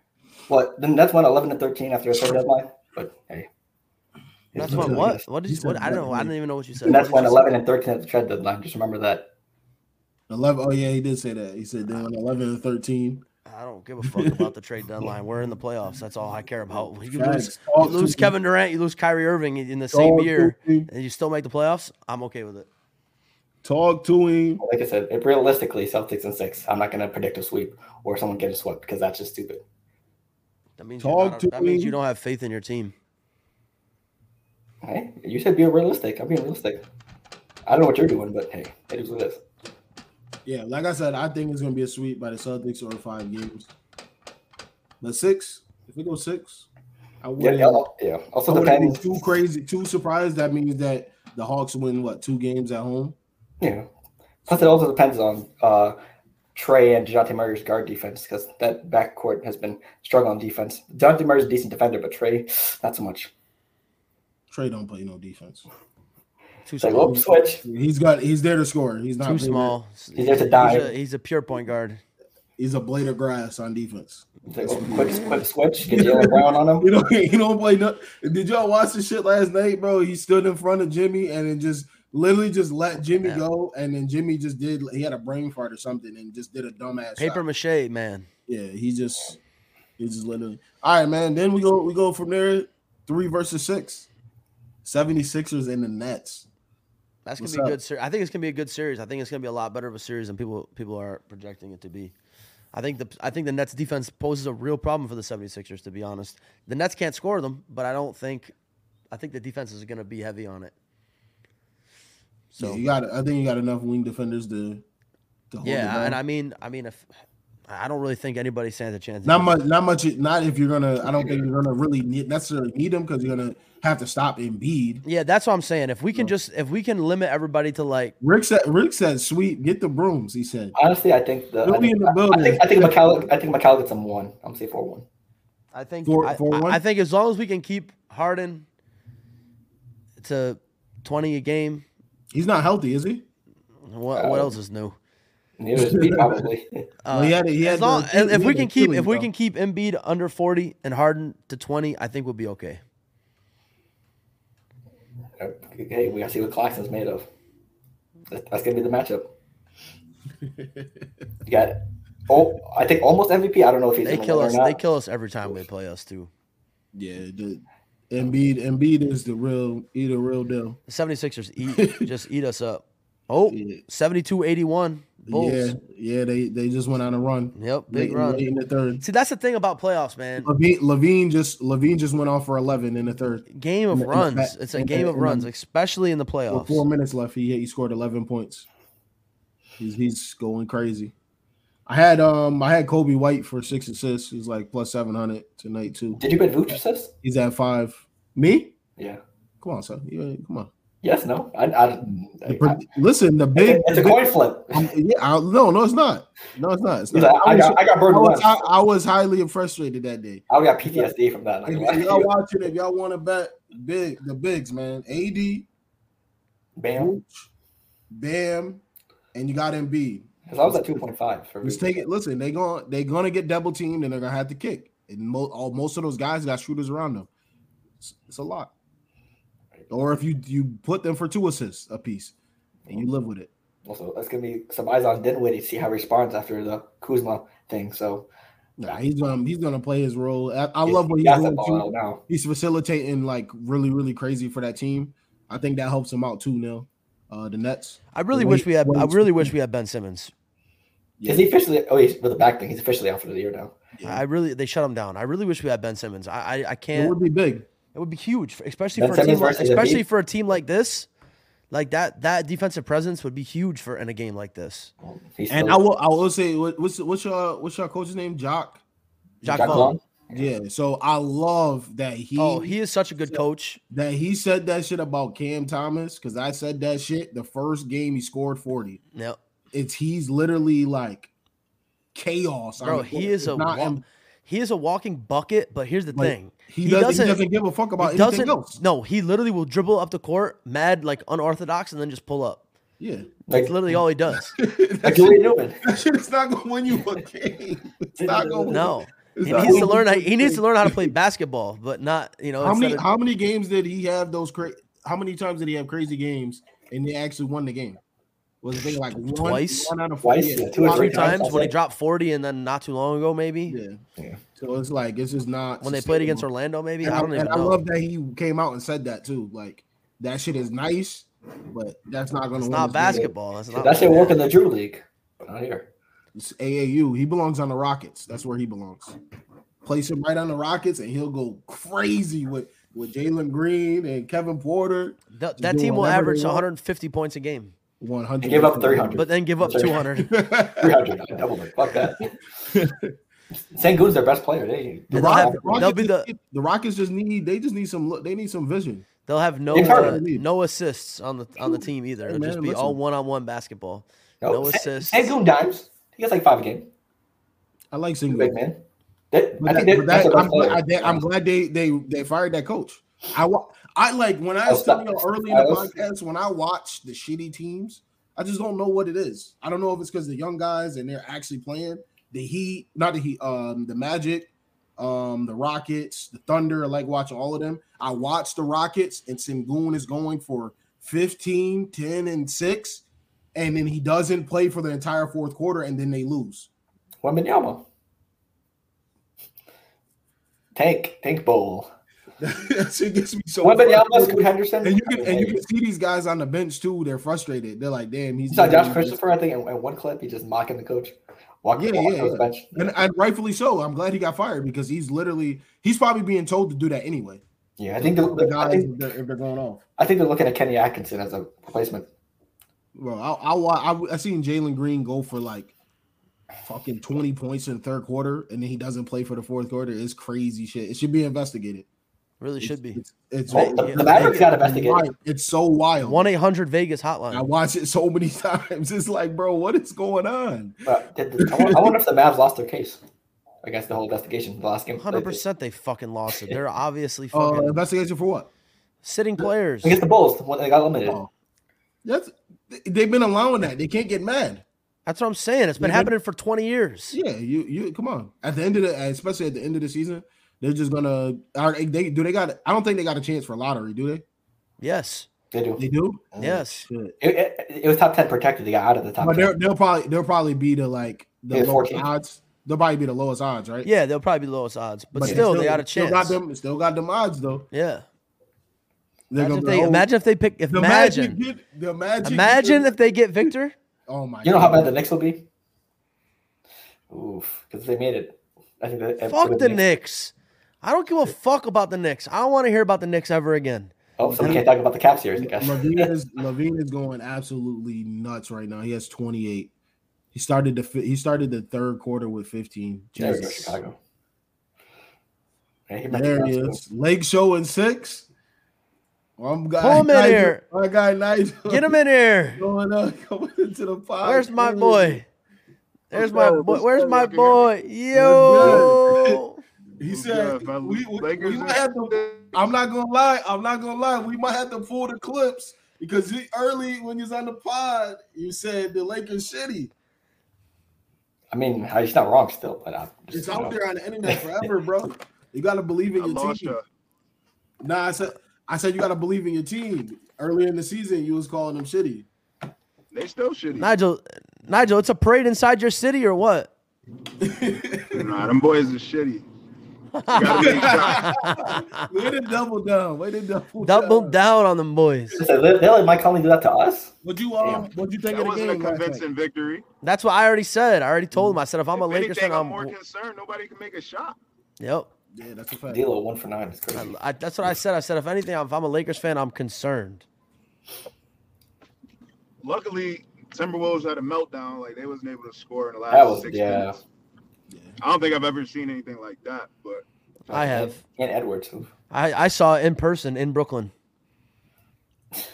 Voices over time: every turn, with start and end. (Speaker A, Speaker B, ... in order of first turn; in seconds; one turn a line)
Speaker A: 0.5-3.5
Speaker A: 4.5-5.2
Speaker B: 4.5-7.5
Speaker C: 4.6-7.0
Speaker A: 6.8-9.3
Speaker C: 10.3-13.2
Speaker B: 13.4-22.7
Speaker C: 14.0-14.5
Speaker C: 17.0-18.3
Speaker C: 19.9-20.9
Speaker C: 23.6-24.6
Speaker A: 24.6-29.6
Speaker B: 30.8-32.9
Speaker C: 31.0-31.9
Speaker A: 34.8-36.8
Speaker A: 37.6-39.4
Speaker C: 40.5-43.7
Speaker C: 45.0-46.7
Speaker C: 47.2-47.9
Speaker A: 47.4-49.1
Speaker C: 48.5-53.1
Speaker A: 53.6-53.9
Speaker A: 54.4-56.0
Speaker A: 56.5-63.3
Speaker C: 64.5-65.7
Speaker B: 66.7-67.2
Speaker A: 66.8-67.6
Speaker C: 67.0-69.8
Speaker B: 69.2-72.0
Speaker A: 70.1-70.9
Speaker C: 72.6-87.4
Speaker A: 74.5-76.9
Speaker B: 87.2-88.3
Speaker C: 88.5-89.4
Speaker C: 90.0-94.1
Speaker C: 94.8-96.5
Speaker B: 97.2-102.1
Speaker C: 97.4-97.8
Speaker B: 102.7-108.5
Speaker B: 109.1-110.7
Speaker B: 112.5-112.8
Speaker C: 112.6-114.8
Speaker C: 115.5-116.2
Speaker B: 115.6-117.0
Speaker B: 117.7-119.6
Speaker C: 119.2-125.0
Speaker B: 125.0-128.1
Speaker C: 128.2-130.7
Speaker A: 130.7-135.1
Speaker C: 131.6-133.3
Speaker B: 135.7-138.7
Speaker C: 136.0-136.8
Speaker B: 140.2-141.8
Speaker C: 142.3-143.2
Speaker B: 143.9-144.9
Speaker A: 144.1-144.5
Speaker A: 145.6-146.8
Speaker C: 145.7-146.5
Speaker B: 147.0-152.8
Speaker C: 147.1-149.3
Speaker A: 155.4-157.3
Speaker A: 158.3-159.3
Speaker C: 160.4-160.9
Speaker A: 161.4-164.8
Speaker B: 164.0-166.3
Speaker C: 166.9-170.8
Speaker B: 170.9-175.8
Speaker C: 171.7-172.1
Speaker C: 173.5-173.8
Speaker C: 175.3-179.0
Speaker B: 177.5-178.4
Speaker B: 179.0-180.5
Speaker C: 180.4-185.5
Speaker B: 183.5-186.8
Speaker C: 186.5-188.7
Speaker C: 189.8-191.1
Speaker C: 191.9-196.2
Speaker A: 196.2-197.1
Speaker C: 197.2-198.7
Speaker C: 199.6-200.7
Speaker A: 201.0-202.8
Speaker C: 202.4-211.1
Speaker A: 203.5-204.9
Speaker A: 207.1-208.7
Speaker A: 210.5-212.3
Speaker C: 211.7-215.7
Speaker A: 216.8-217.1
Speaker C: 216.9-217.5
Speaker C: 218.1-218.8
Speaker C: 219.3-221.1
Speaker A: 220.5-222.0
Speaker C: 221.6-227.3
Speaker C: 228.0-228.7
Speaker C: 229.9-232.3
Speaker C: 232.9-233.5
Speaker A: 233.8-238.3
Speaker C: 238.8-249.5
Speaker A: 240.8-242.2
Speaker B: 248.1-250.3
Speaker C: 251.2-251.5
Speaker A: 251.2-253.7
Speaker C: 253.9-254.2
Speaker B: 254.0-257.1
Speaker C: 256.9-257.7
Speaker B: 257.9-261.1
Speaker A: 258.9-260.0
Speaker B: 261.7-264.9
Speaker A: 265.0-265.8
Speaker C: 265.5-268.8
Speaker B: 269.4-269.9
Speaker C: 269.4-272.8
Speaker A: 269.4-270.5
Speaker B: 272.4-273.8
Speaker C: 273.3-279.0
Speaker C: 279.7-281.3
Speaker C: 282.1-284.0
Speaker B: 282.8-287.4
Speaker C: 286.1-288.8
Speaker B: 288.0-292.6
Speaker C: 293.0-293.3
Speaker A: 293.5-294.0
Speaker B: 293.5-294.5
Speaker C: 294.5-301.1
Speaker A: 295.0-295.8
Speaker A: 298.1-298.9
Speaker B: 298.7-303.0
Speaker A: 299.4-299.9
Speaker C: 302.6-308.0
Speaker C: 308.6-311.5
Speaker B: 309.2-309.9
Speaker A: 310.2-311.7
Speaker B: 310.8-313.8
Speaker C: 313.7-314.0
Speaker C: 314.6-316.4
Speaker B: 315.8-317.8
Speaker C: 317.0-323.3
Speaker B: 322.6-324.4
Speaker A: 323.1-325.9
Speaker C: 326.3-329.1
Speaker C: 329.8-336.6
Speaker B: 335.3-337.7
Speaker C: 338.0-341.0
Speaker A: 338.4-340.0
Speaker B: 339.2-340.3
Speaker A: 340.8-342.4
Speaker C: 342.2-343.1
Speaker A: 343.5-345.9
Speaker C: 345.1-349.1
Speaker B: 345.1-346.3
Speaker B: 349.2-355.3
Speaker C: 349.7-350.4
Speaker A: 349.7-350.2
Speaker C: 351.6-353.0
Speaker A: 354.4-356.9
Speaker C: 357.9-358.6
Speaker A: 358.3-358.8
Speaker A: 359.3-361.2
Speaker C: 359.6-383.0
Speaker A: 364.6-365.9
Speaker C: 383.5-386.7
Speaker A: 387.2-387.9
Speaker A: 390.7-391.9
Speaker C: 392.4-399.2
Speaker A: 393.6-395.6
Speaker A: 398.5-402.9
Speaker C: 401.8-407.4
Speaker A: 407.8-408.9
Speaker C: 408.0-409.8
Speaker A: 410.0-412.1
Speaker C: 412.9-415.7
Speaker C: 416.6-421.9
Speaker B: 422.4-424.5
Speaker C: 422.6-426.2
Speaker A: 423.5-425.0
Speaker B: 426.0-427.5
Speaker C: 427.3-430.8
Speaker A: 430.8-433.0
Speaker C: 431.4-431.9
Speaker A: 433.6-435.4
Speaker B: 435.0-437.8
Speaker A: 436.3-436.6
Speaker C: 437.3-438.5
Speaker B: 439.0-440.0
Speaker A: 439.8-441.2
Speaker C: 441.0-441.3
Speaker C: 442.0-444.6
Speaker B: 445.1-447.1
Speaker C: 445.8-446.1
Speaker C: 447.1-454.2
Speaker B: 454.8-455.3
Speaker A: 455.5-455.8
Speaker C: 455.8-457.1
Speaker B: 456.4-456.8
Speaker A: 457.2-459.5
Speaker C: 459.2-463.9
Speaker A: 461.5-462.1
Speaker B: 463.8-466.4
Speaker C: 465.1-467.7
Speaker B: 467.7-468.0
Speaker C: 469.3-470.1
Speaker B: 469.4-471.4
Speaker C: 470.7-473.5
Speaker B: 472.2-473.7
Speaker C: 474.1-474.9
Speaker A: 474.4-475.4
Speaker A: 477.1-479.8
Speaker B: 479.3-484.6
Speaker A: 484.2-486.1
Speaker C: 484.2-484.7
Speaker C: 485.4-489.7
Speaker C: 490.3-493.7
Speaker A: 493.1-494.0
Speaker B: 493.2-493.6
Speaker A: 495.9-496.8
Speaker C: 496.1-498.3
Speaker C: 499.4-502.0
Speaker B: 499.8-500.6
Speaker B: 501.7-502.6
Speaker C: 502.6-505.2
Speaker B: 504.2-505.2
Speaker B: 506.1-509.6
Speaker D: 506.1-507.7
Speaker C: 508.1-509.4
Speaker C: 510.0-519.9
Speaker D: 510.1-512.5
Speaker A: 521.5-524.7
Speaker C: 523.3-526.7
Speaker D: 526.2-526.8
Speaker C: 527.8-532.3
Speaker D: 533.1-533.9
Speaker B: 533.8-536.7
Speaker C: 537.4-538.2
Speaker D: 538.1-539.5
Speaker B: 540.1-542.0
Speaker D: 540.3-541.6
Speaker C: 540.4-544.4
Speaker B: 543.8-545.4
Speaker A: 545.4-547.9
Speaker C: 547.2-549.2
Speaker D: 548.3-549.8
Speaker B: 550.0-552.9
Speaker D: 551.9-554.4
Speaker B: 554.8-555.1
Speaker C: 555.3-556.1
Speaker A: 555.9-557.1
Speaker B: 556.9-560.2
Speaker D: 562.6-567.0
Speaker A: 566.1-567.0
Speaker C: 567.7-568.0
Speaker D: 568.0-570.0
Speaker B: 570.5-571.0
Speaker A: 570.5-571.9
Speaker B: 572.1-573.9